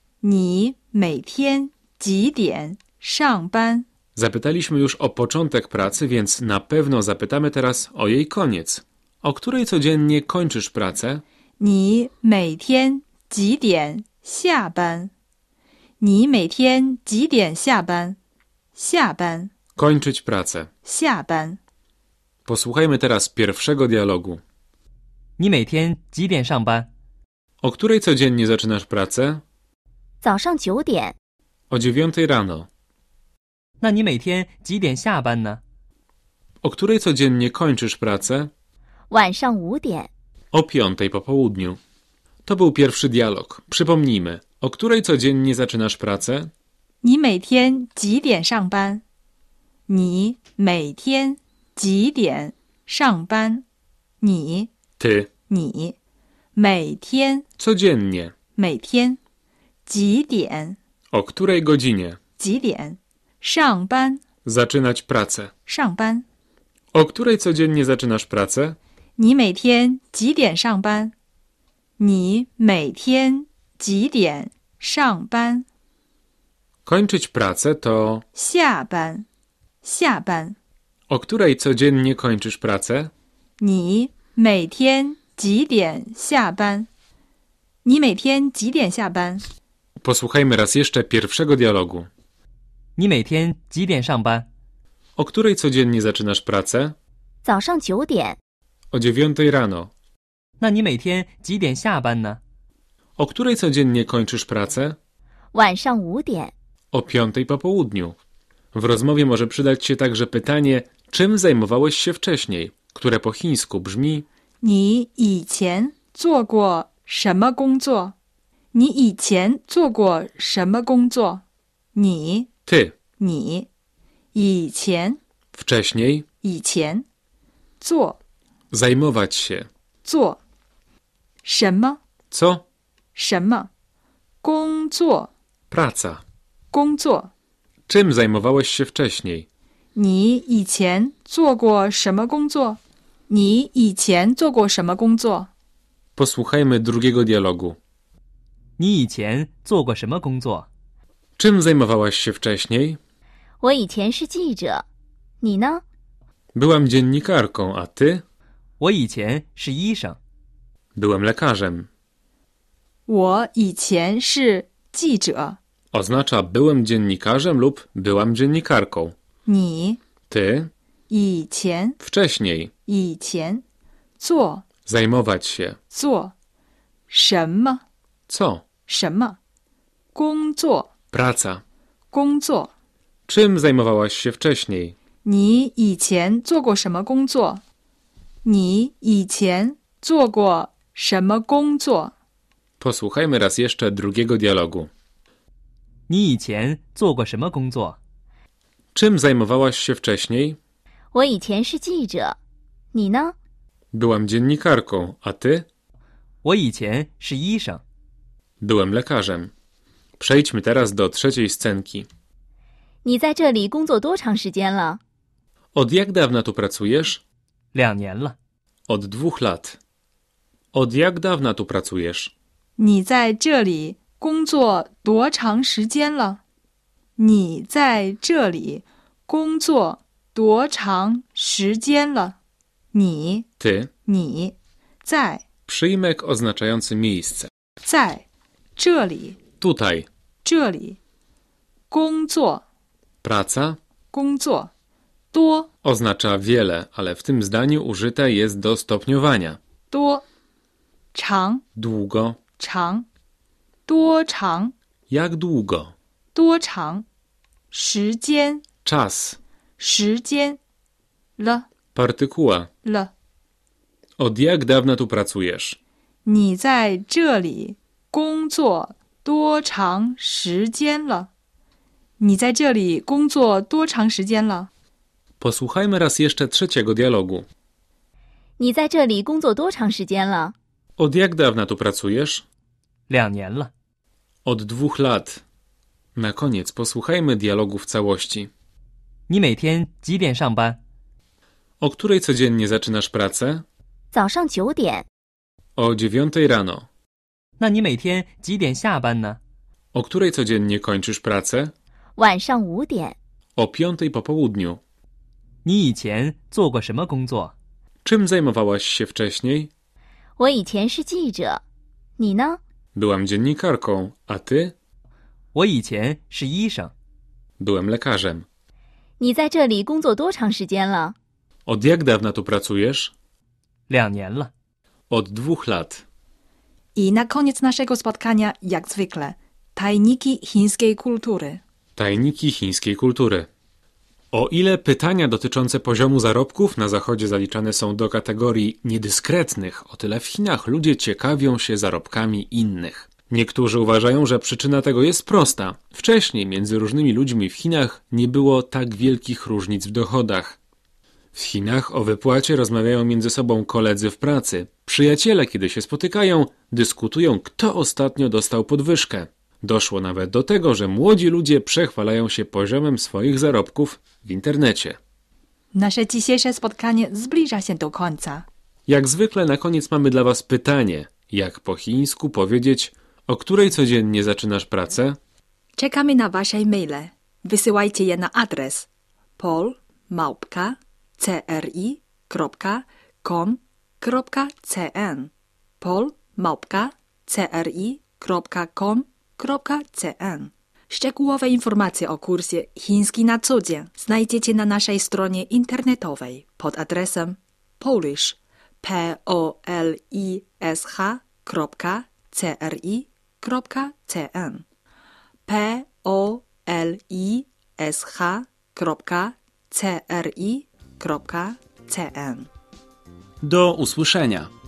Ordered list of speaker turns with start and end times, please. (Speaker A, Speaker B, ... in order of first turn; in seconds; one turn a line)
Speaker A: 0.2-3.9
Speaker B: 4.2-11.2
Speaker A: 11.6-15.1
Speaker A: 16.0-18.2
Speaker A: 18.8-19.5
Speaker B: 19.8-20.7
Speaker A: 20.8-21.6
Speaker B: 22.5-24.4
Speaker C: 25.4-26.9
Speaker B: 27.6-29.4
Speaker D: 30.2-31.2
Speaker B: 31.7-32.7
Speaker C: 33.8-35.6
Speaker B: 36.6-38.5
Speaker D: 39.1-40.1
Speaker B: 40.5-41.8
Speaker B: 42.5-46.5
Speaker A: 47.0-49.0
Speaker A: 49.9-53.6
Speaker A: 54.2-54.7
Speaker B: 55.0-55.3
Speaker A: 55.5-56.0
Speaker A: 56.5-57.5
Speaker B: 57.6-58.3
Speaker A: 58.6-59.2
Speaker A: 59.9-60.8
Speaker B: 61.1-62.2
Speaker A: 62.4-64.2
Speaker B: 64.5-65.5
Speaker A: 65.7-66.3
Speaker B: 66.9-68.8
Speaker A: 69.2-71.1
Speaker A: 72.0-75.7
Speaker B: 76.8-78.2
Speaker A: 78.3-79.2
Speaker A: 79.8-80.6
Speaker B: 81.1-83.1
Speaker A: 83.6-86.9
Speaker A: 87.8-89.5
Speaker B: 90.0-92.1
Speaker C: 93.0-94.5
Speaker B: 95.2-97.0
Speaker D: 97.4-98.4
Speaker B: 98.9-99.9
Speaker C: 100.6-102.4
Speaker B: 103.2-105.0
Speaker D: 105.5-106.5
Speaker B: 106.9-108.2
Speaker B: 108.7-114.3
Speaker A: 114.6-118.2
Speaker A: 118.7-121.4
Speaker A: 122.0-122.5
Speaker B: 122.7-123.0
Speaker A: 123.2-123.7
Speaker A: 124.3-125.2
Speaker B: 125.5-126.3
Speaker A: 126.4-127.1
Speaker A: 127.8-128.2
Speaker B: 128.7-129.7
Speaker A: 130.0-130.4
Speaker A: 131.4-132.0
Speaker B: 132.3-132.6
Speaker A: 133.2-133.7
Speaker A: 134.4-135.3
Speaker B: 135.7-136.2
Speaker A: 136.7-137.3
Speaker B: 137.9-139.5
Speaker A: 139.9-145.5
Speaker B: 146.2-147.8
Speaker C: 148.8-150.7
Speaker B: 151.4-153.0
Speaker D: 153.6-154.8
Speaker D: 155.4-155.8
Speaker B: 156.6-158.2
Speaker C: 158.8-160.2
Speaker B: 160.9-161.9
Speaker A: 163.1-165.6
Speaker B: 165.9-169.2
Speaker A: 169.5-170.0
Speaker B: 170.3-170.7
Speaker A: 171.1-172.0
Speaker B: 172.0-172.7
Speaker A: 172.9-173.6
Speaker A: 174.2-174.7
Speaker B: 174.9-175.8
Speaker A: 175.9-176.3
Speaker A: 177.1-177.8
Speaker B: 178.3-178.6
Speaker A: 178.9-179.4
Speaker A: 180.2-180.9
Speaker B: 181.1-181.6
Speaker A: 182.1-182.7
Speaker B: 183.3-185.0
Speaker A: 185.2-187.6
Speaker A: 188.4-192.1
Speaker B: 192.8-194.9
Speaker C: 196.1-198.0
Speaker B: 198.9-200.6
Speaker D: 201.1-202.4
Speaker D: 202.9-203.3
Speaker B: 203.9-205.7
Speaker C: 206.4-207.8
Speaker B: 208.6-209.5
Speaker B: 210.2-212.1
Speaker D: 213.0-215.0
Speaker B: 215.7-217.2
Speaker C: 217.7-218.4
Speaker B: 218.9-219.8
Speaker B: 220.7-222.3
Speaker A: 222.8-226.4
Speaker A: 227.2-232.4
Speaker A: 232.9-233.5
Speaker B: 233.6-233.9
Speaker A: 234.1-235.4
Speaker B: 235.7-237.5
Speaker A: 237.8-238.2
Speaker A: 238.8-239.4
Speaker B: 239.6-240.1
Speaker A: 240.4-241.0
Speaker A: 241.9-242.6
Speaker B: 243.2-243.8
Speaker A: 244.1-244.7
Speaker A: 245.3-245.7
Speaker B: 245.8-249.6
Speaker A: 249.9-250.3
Speaker A: 251.1-251.6
Speaker B: 251.8-252.4
Speaker A: 252.6-253.1
Speaker A: 253.9-254.7
Speaker B: 255.1-255.9
Speaker A: 256.4-257.1
Speaker A: 257.7-258.6
Speaker B: 258.9-259.4
Speaker A: 259.8-260.6
Speaker A: 261.4-261.7
Speaker B: 261.9-262.7
Speaker A: 262.8-263.1
Speaker B: 264.2-265.8
Speaker A: 266.2-271.3
Speaker A: 272.2-274.7
Speaker B: 275.4-277.5
Speaker D: 278.6-280.6
Speaker B: 281.0-282.4
Speaker C: 283.1-283.7
Speaker B: 284.4-285.4
Speaker B: 286.1-288.5
Speaker C: 289.3-290.8
Speaker B: 291.8-293.6
Speaker D: 294.1-295.1
Speaker B: 295.8-296.9
Speaker C: 297.6-299.4
Speaker B: 299.9-301.7
Speaker D: 302.2-303.2
Speaker B: 303.6-304.8
Speaker C: 305.6-307.5
Speaker B: 308.1-309.7
Speaker D: 310.4-311.6
Speaker D: 312.2-312.6
Speaker B: 312.9-314.8
Speaker C: 315.6-316.9
Speaker B: 317.6-318.5
Speaker D: 319.2-321.1
Speaker B: 321.7-323.1
Speaker C: 323.9-324.5
Speaker B: 325.1-326.0
Speaker A: 326.9-331.6
Speaker B: 332.0-333.5
Speaker B: 334.3-350.6
Speaker B: 351.3-365.0
Speaker A: 365.7-368.5
Speaker B: 368.9-375.2
Speaker A: 375.8-404.6
Speaker A: 405.5-412.5
Speaker B: 413.4-414.5